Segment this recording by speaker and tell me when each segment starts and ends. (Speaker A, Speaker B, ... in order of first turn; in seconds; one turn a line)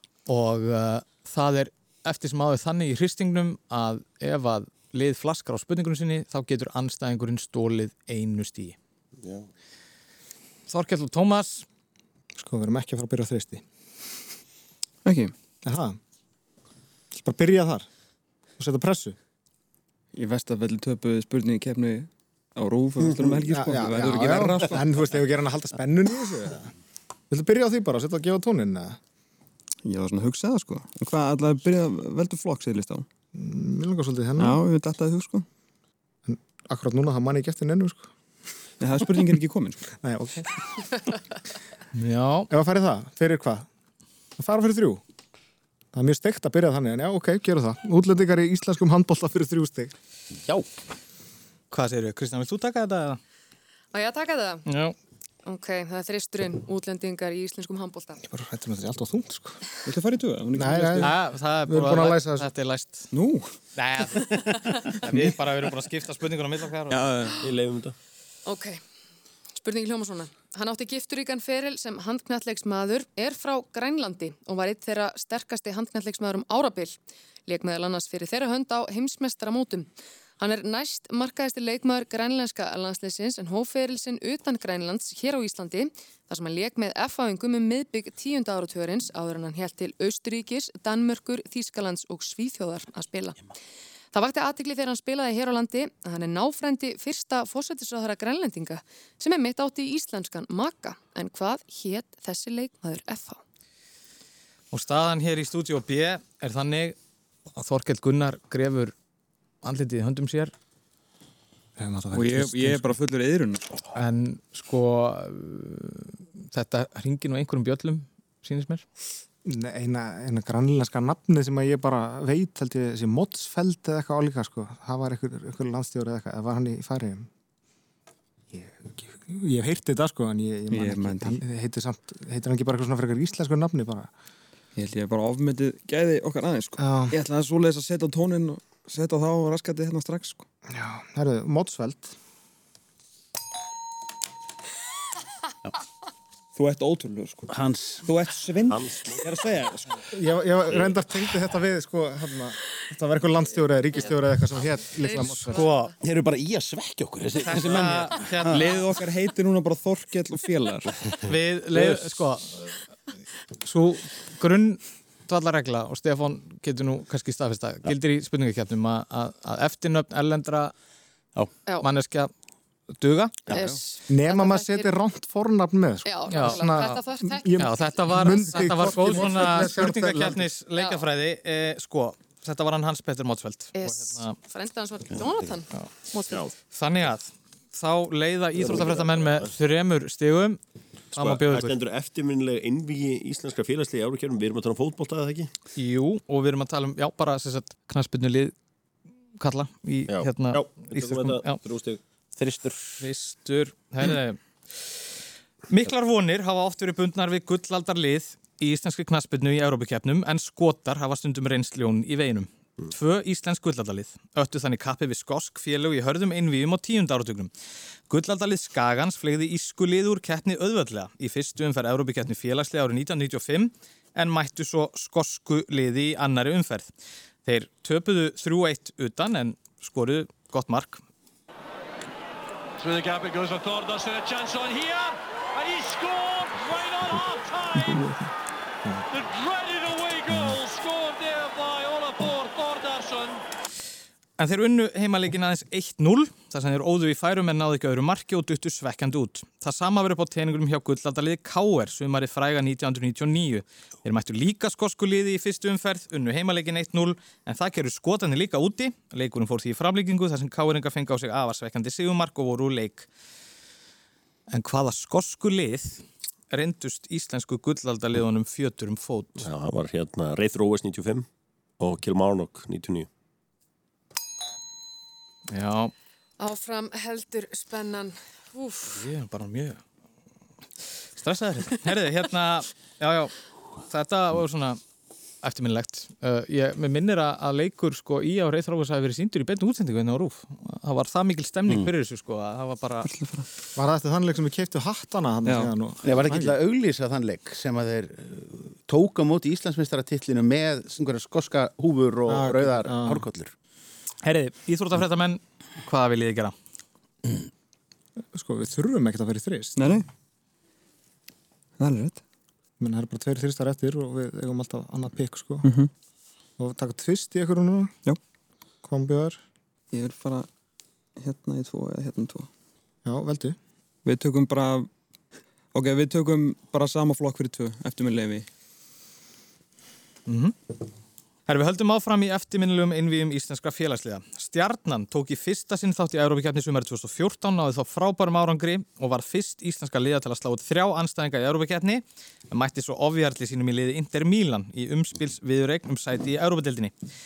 Speaker A: 0.3-8.8
Speaker A: 10.7-11.7
Speaker B: 12.4-13.6
Speaker C: 15.0-15.3
Speaker B: 15.6-16.0
Speaker B: 17.1-17.9
Speaker B: 18.6-19.1
Speaker C: 20.1-24.8
Speaker B: 23.5-26.7
Speaker B: 27.3-29.0
Speaker C: 29.8-33.0
Speaker B: 33.3-34.6
Speaker C: 34.4-35.5
Speaker B: 36.3-38.1
Speaker C: 38.8-39.8
Speaker B: 40.0-40.5
Speaker A: 41.9-42.5
Speaker B: 42.5-43.7
Speaker B: 44.4-45.0
Speaker B: 45.9-49.9
Speaker A: 51.7-53.2
Speaker D: 53.9-54.6
Speaker A: 54.6-55.0
Speaker D: 55.4-58.2
Speaker B: 58.2-59.6
Speaker C: 59.9-61.1
Speaker B: 60.5-62.5
Speaker A: 61.0-63.1
Speaker C: 63.1-63.5
Speaker A: 63.7-67.0
Speaker C: 66.9-67.4
Speaker E: 67.4-67.9
Speaker D: 68.5-68.8
Speaker D: 69.5-79.9
Speaker D: 80.4-93.4
Speaker D: 94.1-103.4
Speaker A: 104.7-107.0
Speaker A: 107.6-108.9
Speaker A: 109.6-110.5
Speaker B: 111.8-113.0
Speaker C: 112.1-113.8
Speaker A: 113.9-118.8
Speaker B: 119.4-127.3
Speaker B: 128.5-134.1
Speaker C: 130.7-131.4
Speaker C: 134.8-140.4
Speaker B: 136.8-137.2
Speaker B: 140.7-142.2
Speaker C: 146.5-147.5
Speaker F: 147.5-148.0
Speaker C: 148.0-150.0
Speaker E: 148.7-149.2
Speaker B: 150.1-155.6
Speaker D: 155.0-155.7
Speaker A: 155.5-155.9
Speaker F: 156.0-158.6
Speaker A: 157.4-158.8
Speaker C: 158.3-160.9
Speaker A: 161.3-162.8
Speaker C: 161.7-162.2
Speaker A: 163.6-170.7
Speaker A: 171.8-172.3
Speaker A: 172.9-173.5
Speaker D: 173.5-174.9
Speaker B: 174.1-180.4
Speaker D: 176.0-177.7
Speaker A: 176.3-176.6
Speaker A: 177.6-184.3
Speaker D: 180.7-181.0
Speaker D: 183.8-186.4
Speaker A: 186.7-190.6
Speaker E: 188.6-189.5
Speaker A: 191.1-191.7
Speaker E: 191.2-195.5
Speaker A: 195.8-198.5
Speaker A: 199.4-201.6
Speaker E: 200.1-202.0
Speaker F: 202.3-202.9
Speaker A: 203.0-204.9
Speaker A: 205.7-217.5
Speaker A: 218.1-226.9
Speaker A: 227.4-231.0
Speaker G: 232.8-237.8
Speaker C: 237.8-238.2
Speaker B: 237.8-238.1
Speaker G: 239.1-243.4
Speaker A: 244.4-263.1
Speaker A: 264.5-269.5
Speaker E: 269.4-271.2
Speaker E: 271.8-273.1
Speaker A: 275.5-275.9
Speaker D: 276.4-278.9
Speaker A: 278.9-279.8
Speaker A: 281.2-284.8
Speaker A: 285.4-293.1
Speaker C: 293.0-293.4
Speaker B: 293.8-296.6
Speaker C: 295.4-295.7
Speaker F: 296.0-303.5
Speaker B: 302.3-303.2
Speaker A: 304.2-306.5
Speaker B: 308.3-310.0
Speaker C: 309.8-310.1
Speaker C: 311.8-312.2
Speaker B: 312.8-315.7
Speaker C: 315.6-315.9
Speaker B: 316.6-317.9
Speaker B: 318.8-319.4
Speaker C: 319.9-320.5
Speaker C: 321.2-322.5
Speaker B: 323.0-323.6
Speaker C: 324.1-324.9
Speaker C: 325.7-328.4
Speaker A: 330.3-330.6
Speaker A: 331.5-346.9